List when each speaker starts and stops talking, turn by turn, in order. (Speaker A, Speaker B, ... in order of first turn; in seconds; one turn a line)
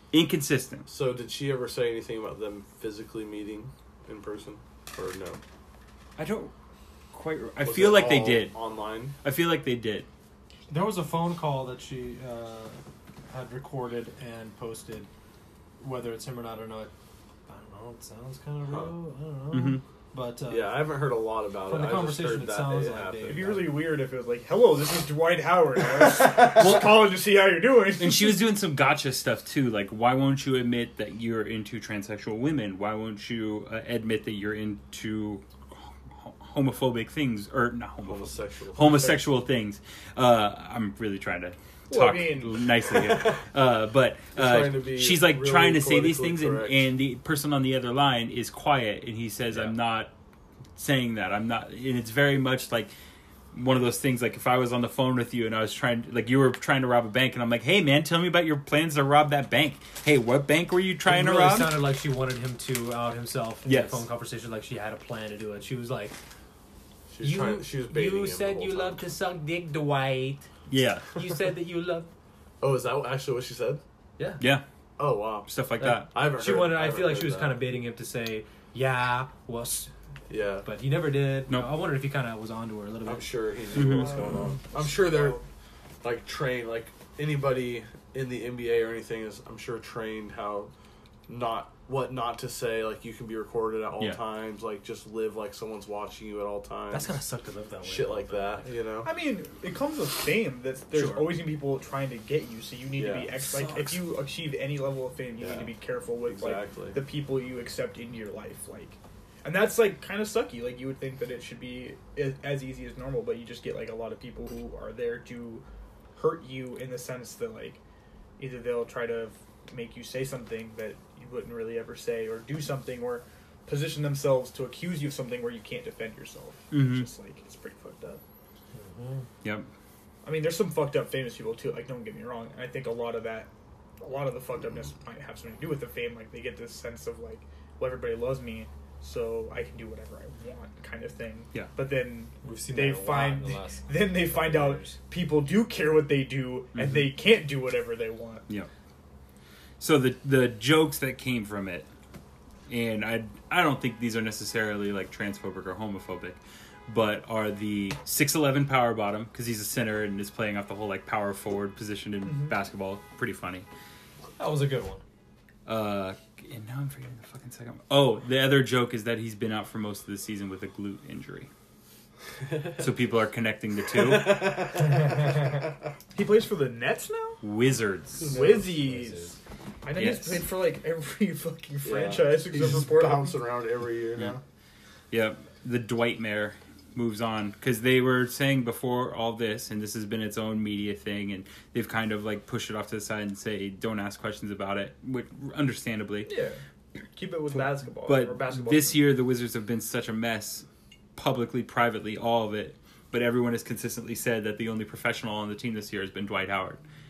Speaker A: 0.1-0.9
Speaker B: 0.9-5.4
Speaker A: 6.2-6.5
Speaker A: 7.1-8.6
Speaker B: 7.6-9.1
Speaker A: 9.2-10.1
Speaker C: 10.7-12.8
Speaker C: 13.3-15.1
Speaker C: 15.8-16.9
Speaker C: 17.5-20.9
Speaker A: 19.5-19.8
Speaker B: 20.5-23.5
Speaker C: 21.7-23.9
Speaker D: 23.3-28.5
Speaker A: 26.6-26.9
Speaker A: 28.0-50.1
Speaker B: 38.0-39.3
Speaker D: 41.9-42.6
Speaker B: 42.9-43.4
Speaker B: 44.4-46.9
Speaker A: 50.8-52.9
Speaker A: 53.5-61.8
Speaker C: 61.1-66.2
Speaker A: 63.6-64.0
Speaker B: 67.1-69.0
Speaker C: 67.2-70.5
Speaker A: 70.7-71.1
Speaker C: 71.1-72.1
Speaker B: 72.6-73.8
Speaker C: 74.2-74.4
Speaker A: 74.4-74.7
Speaker B: 75.0-77.6
Speaker A: 75.5-76.1
Speaker C: 75.8-79.9
Speaker B: 80.3-80.7
Speaker C: 80.6-83.4
Speaker B: 83.0-85.4
Speaker A: 83.7-84.1
Speaker D: 83.8-85.5
Speaker B: 86.0-90.7
Speaker B: 91.3-97.1
Speaker C: 96.9-98.7
Speaker B: 97.8-99.1
Speaker D: 99.0-115.6
Speaker C: 100.9-101.3
Speaker B: 103.0-103.3
Speaker C: 103.4-104.0
Speaker B: 105.4-105.7
Speaker B: 106.2-107.0
Speaker D: 116.2-117.8
Speaker D: 118.4-128.2
Speaker A: 126.7-127.1
Speaker C: 128.7-129.3
Speaker A: 129.4-129.7
Speaker D: 130.2-133.5
Speaker D: 134.0-148.4
Speaker C: 142.4-145.0
Speaker A: 146.7-147.1
Speaker A: 149.8-151.9
Speaker A: 152.7-163.7
Speaker D: 162.2-162.6
Speaker C: 164.4-165.0
Speaker A: 165.7-171.5
Speaker B: 172.5-172.8
Speaker A: 172.8-174.6
Speaker B: 173.9-175.7
Speaker D: 176.1-177.4
Speaker A: 177.4-178.3
Speaker B: 178.2-178.7
Speaker D: 178.2-183.4
Speaker C: 178.5-179.4
Speaker A: 180.0-180.4
Speaker B: 181.8-184.4
Speaker A: 185.1-196.3
Speaker D: 196.3-199.1
Speaker A: 198.1-206.8